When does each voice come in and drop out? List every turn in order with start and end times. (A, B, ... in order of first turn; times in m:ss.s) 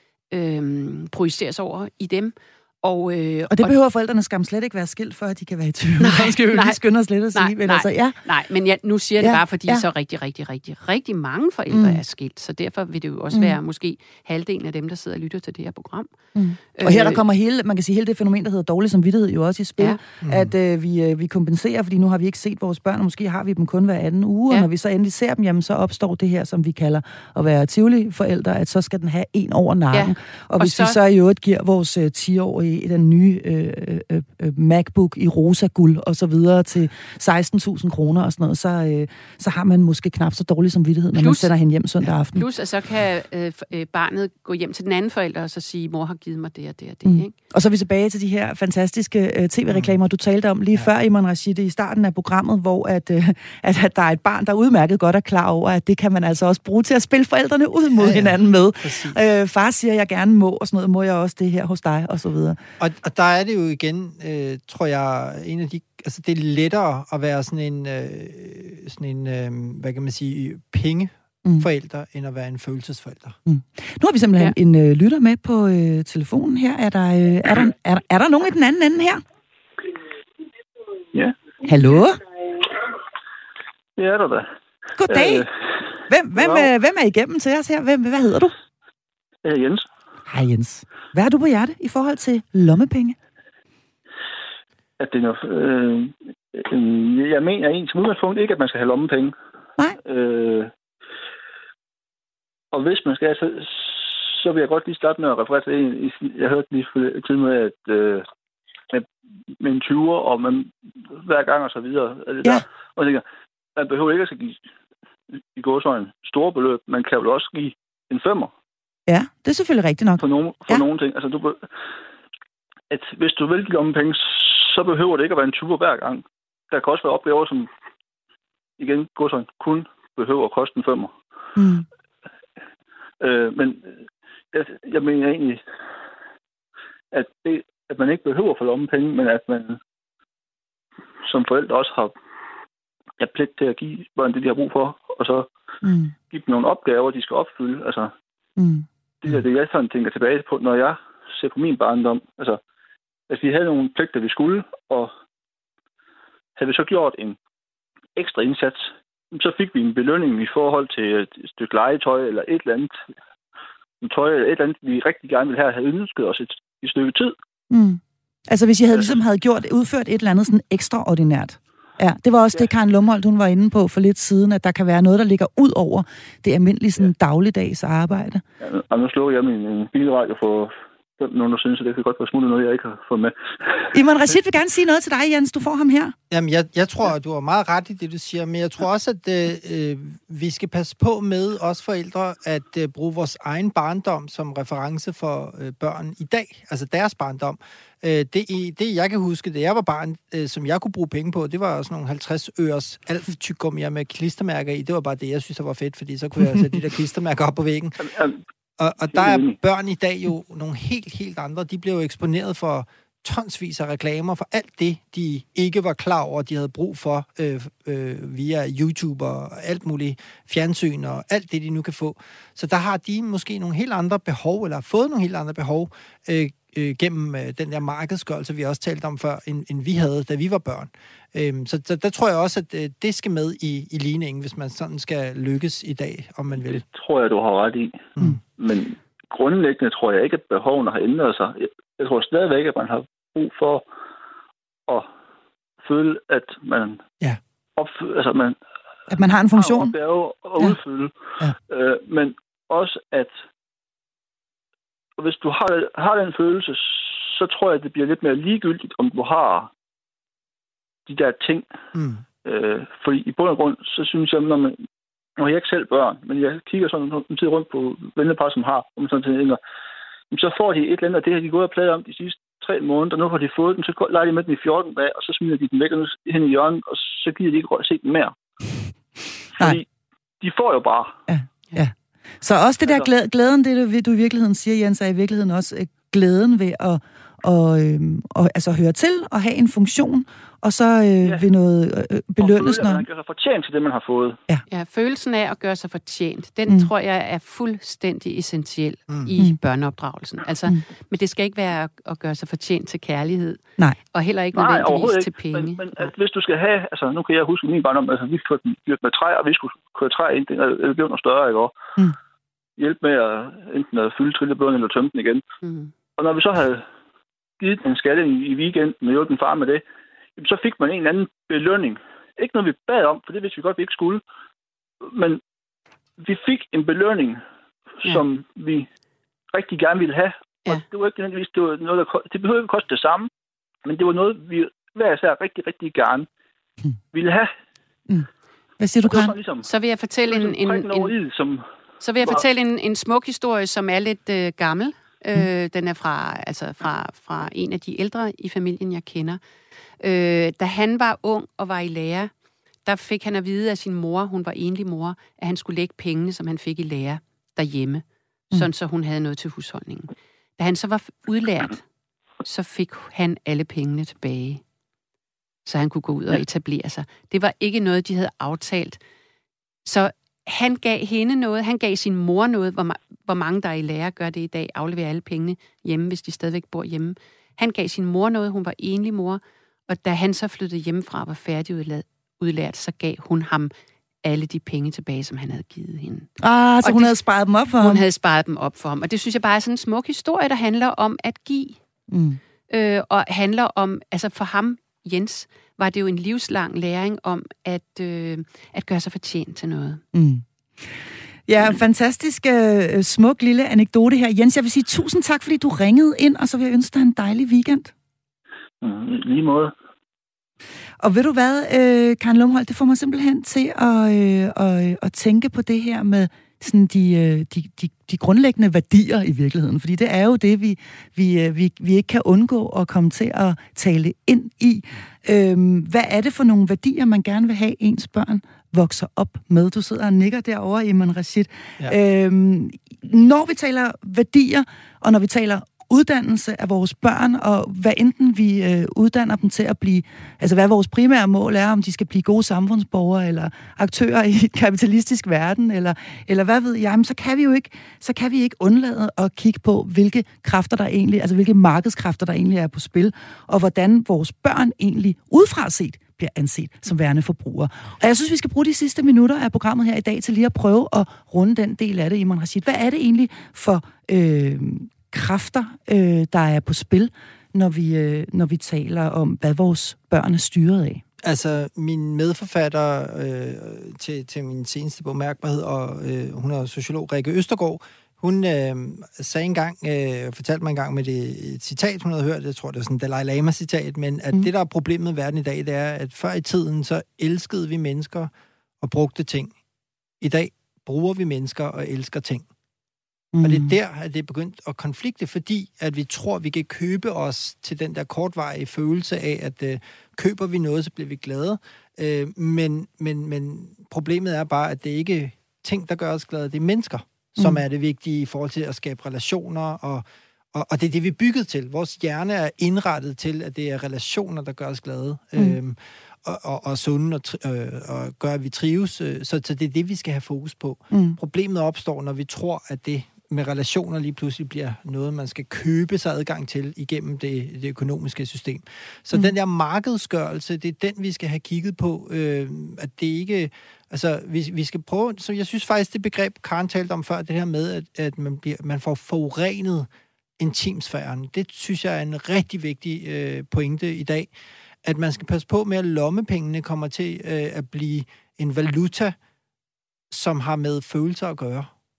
0:00.3-0:03.8 A
0:03.5-0:08.2 B
0:06.0-0:06.8 A
0:07.3-0:16.1 A
0:09.2-0:09.8 B
0:11.7-0:12.0 B
0:13.3-0:13.6 B
0:16.4-0:42.4 B
0:16.7-0:17.2 A
0:20.2-0:20.5 C
0:29.9-0:31.0 A
0:41.1-0:41.5 A
0:42.3-0:47.3 A
0:47.0-1:02.6 B
0:49.7-0:49.9 C
0:58.0-0:59.2 C
1:02.8-1:13.4 C
1:13.5-1:19.2 B
1:21.6-1:22.2 B
1:24.0-1:24.4 D
1:25.0-1:25.4 B
1:25.1-1:25.5 D
1:26.1-1:28.5 B
1:26.4-1:26.7 D
1:29.4-1:29.9 D
1:30.3-1:33.2 B
1:35.0-1:39.3 D
1:40.0-1:40.7 D
1:42.7-1:48.2 D
1:49.6-1:53.2 D
1:53.8-1:54.6 D
1:55.5-1:58.5 D
1:59.1-2:00.8 B
2:00.2-2:01.6 D
2:02.9-2:07.7 D
2:08.8-2:11.1 D
2:11.6-2:11.8 B
2:13.2-2:13.9 D
2:14.5-2:15.6 D
2:17.1-2:19.8 D
2:21.2-2:22.1 D
2:23.2-2:25.5 D
2:25.8-2:26.1 B
2:26.3-2:28.1 D
2:28.6-2:28.8 B
2:29.2-2:32.6 D
2:33.3-2:35.1 D
2:36.6-2:37.4 D
2:38.2-2:42.9 D
2:44.0-2:47.3 D
2:47.7-2:58.4 B
2:58.6-3:03.9 D
3:03.9-3:06.1 B
3:06.3-3:28.1 C
3:28.0-3:28.4 D
3:28.8-3:56.8 C
3:29.1-3:29.6 D
3:56.7-4:03.8 D
4:05.8-4:07.0 D
4:07.8-4:08.6 D
4:09.1-4:09.9 B
4:09.6-4:11.1 D
4:11.7-4:13.3 D
4:15.2-4:19.7 D
4:21.1-4:21.7 D
4:21.9-4:22.2 C
4:22.4-4:24.8 D
4:25.4-4:29.6 D
4:30.3-4:38.3 D
4:39.6-4:39.9 D
4:40.4-4:41.1 D
4:41.3-4:53.0 B
4:52.4-4:54.4 D
4:54.7-5:06.1 A
5:04.5-5:11.7 D
5:12.8-5:15.4 D
5:15.6-5:15.9 A
5:16.2-5:16.8 D
5:17.6-5:19.8 D
5:20.4-5:24.2 D
5:25.1-5:25.4 D
5:26.2-5:27.4 D
5:28.0-5:28.9 D
5:29.5-5:33.3 D
5:33.8-5:36.2 D
5:37.1-5:37.5 D
5:38.8-5:39.3 B
5:39.1-5:39.7 D
5:39.6-5:41.1 A
5:40.3-5:41.6 D
5:42.0-5:49.4 A
5:50.0-5:52.3 A
5:52.8-6:01.8 A
6:02.4-6:04.6 A
6:05.6-6:09.0 A
6:09.8-6:23.7 A
6:24.2-6:26.3 A
6:26.4-6:28.0 B
6:26.8-6:27.2 A
6:27.8-6:31.8 A
6:32.1-6:32.4 B
6:32.7-6:40.0 A
6:40.1-6:40.4 B
6:41.5-6:47.9 B
6:48.8-6:49.7 D
6:51.0-7:51.0 B
7:51.2-8:09.5 C
8:10.2-8:12.4 C
8:13.3-8:13.7 B
8:13.4-8:59.9 C
8:27.4-8:27.6 B
8:40.9-8:41.2 B
9:00.4-9:04.3 C
9:04.8-9:09.2 C
9:10.1-9:11.7 C